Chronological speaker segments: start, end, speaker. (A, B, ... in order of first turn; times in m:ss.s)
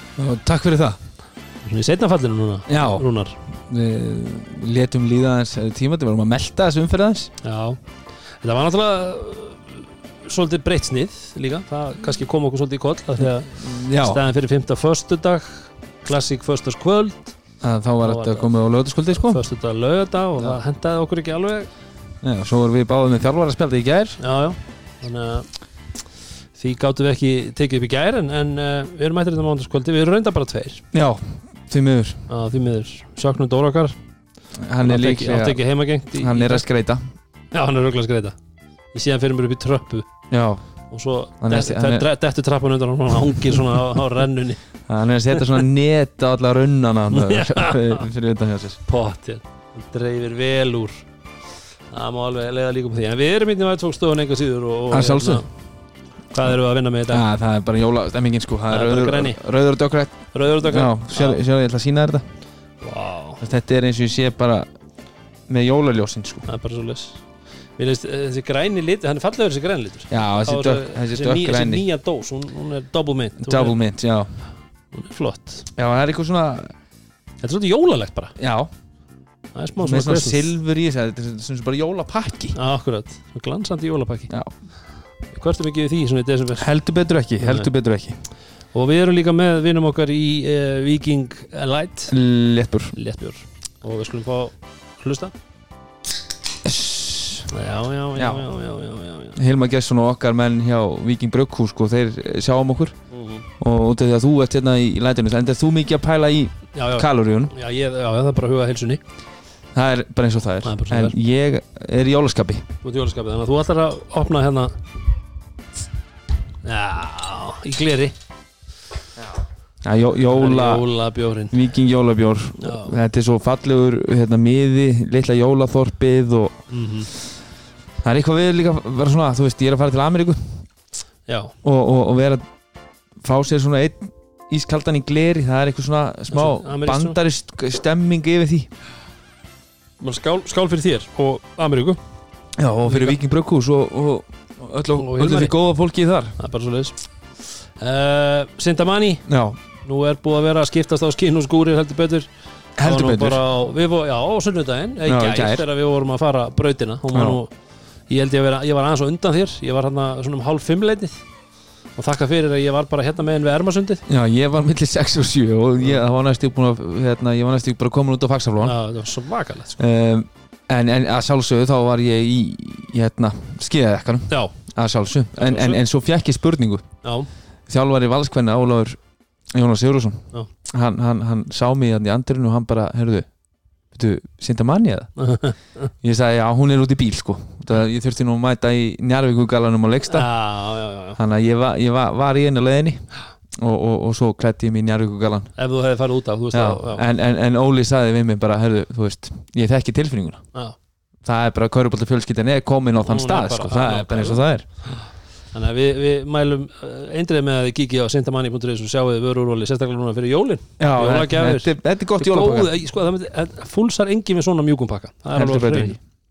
0:00.2-0:01.0 A
0:01.6-0:03.4 B
0:02.7-0:07.3 A
0:07.4-0:07.8 B
0:08.4-0:17.4 B
0:13.2-0:14.2 A
0:17.6-0:19.4 A
0:18.0-0:18.5 B
0:19.1-0:21.7 B
0:22.2-0:24.2 A
0:24.2-0:25.5 B
0:26.5-0:30.8 B
0:30.9-0:32.2 A
0:32.3-0:34.0 B
0:34.6-0:35.6 A
0:34.8-0:36.6 B
0:36.2-0:37.0 A
0:37.5-0:38.4 B
0:38.9-0:40.1 B
0:40.3-0:40.6 A
0:40.9-0:44.7 B
0:41.4-0:42.0 A
0:44.9-0:48.8 A
0:47.1-0:48.0 B
0:48.9-0:51.1 B
0:51.9-0:55.5 B
0:54.9-0:55.4 A
0:56.3-0:57.2 B
0:57.1-1:02.2 A
0:58.7-0:59.4 B
1:00.3-1:01.4 B
1:02.8-1:03.4 B
1:03.4-1:04.7 A
1:05.5-1:06.4 A
1:06.4-1:07.2 B
1:07.8-1:13.8 B
1:10.1-1:11.9 A
1:13.4-1:14.4 A
1:14.9-1:15.7 B
1:15.8-1:16.7 A
1:17.4-1:18.3 B
1:18.4-1:18.7 A
1:19.5-1:20.5 B
1:19.8-1:22.6 A
1:22.5-1:24.3 B
1:25.3-1:26.7 B
1:26.6-1:28.2 A
1:27.4-1:27.7 B
1:28.7-1:32.1 B
1:32.1-1:33.0 A
1:32.9-1:35.3 B
1:36.6-1:37.5 A
1:37.5-1:39.4 B
1:38.2-1:38.5 A
1:39.3-1:43.0 A
1:43.1-1:43.5 B
1:43.6-1:47.5 A
1:46.7-1:49.0 B
1:49.7-1:52.7 A
1:50.6-1:51.2 B
1:52.8-1:54.7 B
1:56.6-1:58.2 B
1:59.2-2:00.9 A
2:00.3-2:01.6 B
2:01.5-2:06.6 A
2:02.6-2:03.0 B
2:06.7-2:07.1 B
2:08.0-2:10.7 A
2:11.3-2:11.5 B
2:11.6-2:12.4 A
2:13.2-2:18.7 A
2:16.3-2:17.2 B
2:20.0-2:22.0 B
2:22.6-2:26.4 A
2:22.8-2:23.2 B
2:25.0-2:25.6 B
2:26.4-2:27.1 B
2:27.6-2:29.2 B
2:29.3-2:29.6 A
2:29.8-2:32.3 B
2:32.8-2:33.4 A
2:32.8-2:37.5 B
2:35.0-2:35.6 A
2:37.1-2:37.4 A
2:38.1-2:41.2 B
2:41.9-2:44.0 B
2:44.1-2:48.8 A
2:48.6-2:49.8 B
2:49.8-2:56.9 A
2:54.3-2:54.6 B
2:55.4-2:55.8 B
2:57.0-2:57.3 B
2:57.7-2:59.0 A
2:59.5-3:03.3 A
3:03.9-3:05.2 A
3:05.2-3:05.9 B
3:06.0-3:10.3 A
3:10.1-3:11.2 B
3:11.2-3:13.0 A
3:13.6-3:15.5 A
3:15.6-3:17.0 B
3:16.5-3:20.4 A
3:21.2-3:24.7 A
3:23.0-3:36.0 B
3:30.8-3:32.7 A
3:35.3-3:36.0 A